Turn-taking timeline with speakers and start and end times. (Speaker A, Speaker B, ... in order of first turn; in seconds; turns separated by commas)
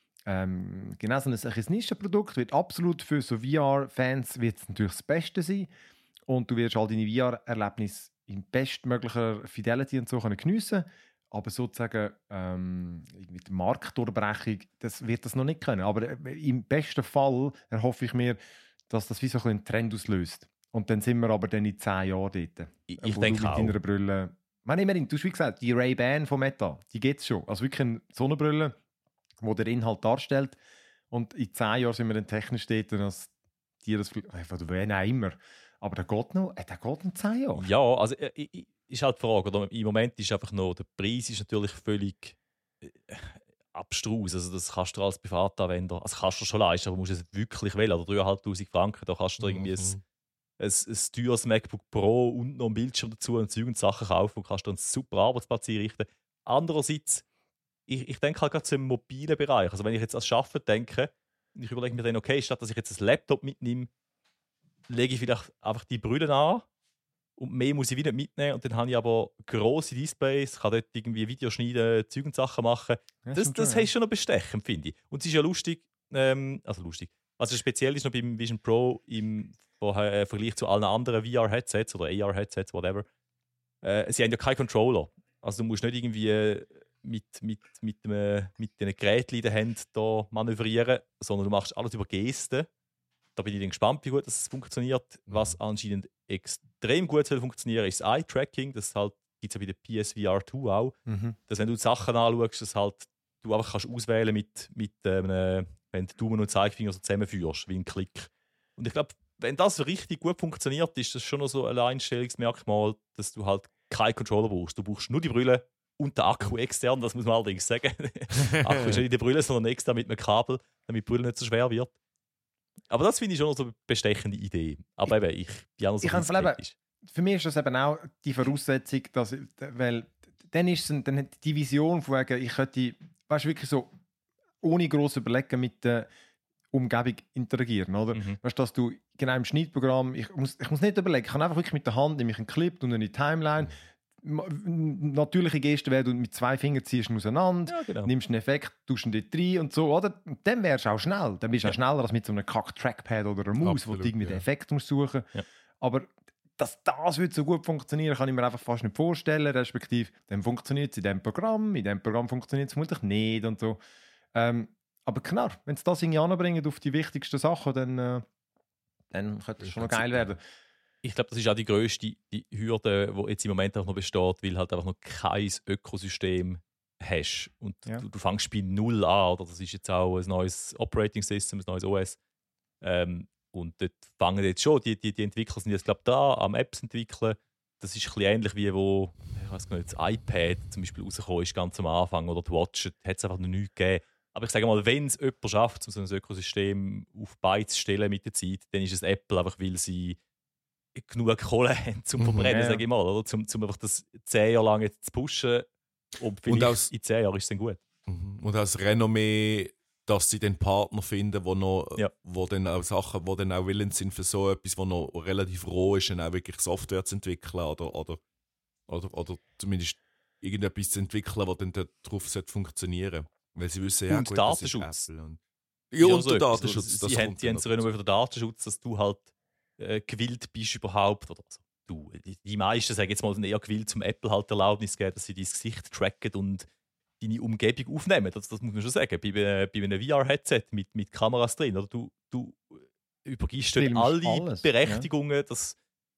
Speaker A: 0.3-5.7, Speaker A: 6.3-28.8, Speaker B: 22.9-23.8, Speaker A: 29.4-30.6, Speaker A: 31.1-33.3, Speaker A: 33.8-37.7, Speaker B: 37.6-50.0, Speaker C: 49.4-50.0, Speaker B: 50.6-57.2, Speaker B: 57.9-63.9, Speaker B: 64.9-66.7, Speaker B: 67.4-83.1, Speaker A: 73.2-73.9, Speaker B: 83.8-92.7, Speaker B: 93.4-122.0, Speaker C: 95.3-95.6, Speaker A: 101.1-101.4, Speaker C: 118.4-119.0, Speaker B: 122.9-126.7, Speaker A: 126.0-133.9, Speaker A: 134.6-136.1, Speaker A: 136.7-163.8, Speaker B: 138.1-138.4, Speaker B: 147.7-148.1, Speaker C: 153.6-154.4, Speaker A: 164.3-168.2, Speaker A: 169.1-170.4, Speaker C: 169.6-170.3, Speaker B: 171.0-182.2, Speaker B: 182.8-200.2, Speaker B: 201.0-207.8, Speaker C: 202.2-202.5, Speaker A: 202.4-202.8, Speaker C: 206.5-206.9, Speaker C: 208.1-218.2, Speaker C: 218.9-225.4, Speaker B: 224.1-225.1, Speaker C: 225.9-227.9, Speaker B: 226.0-229.3, Speaker B: 229.8-236.7, Speaker B: 237.2-245.8, Speaker A: 243.8-245.1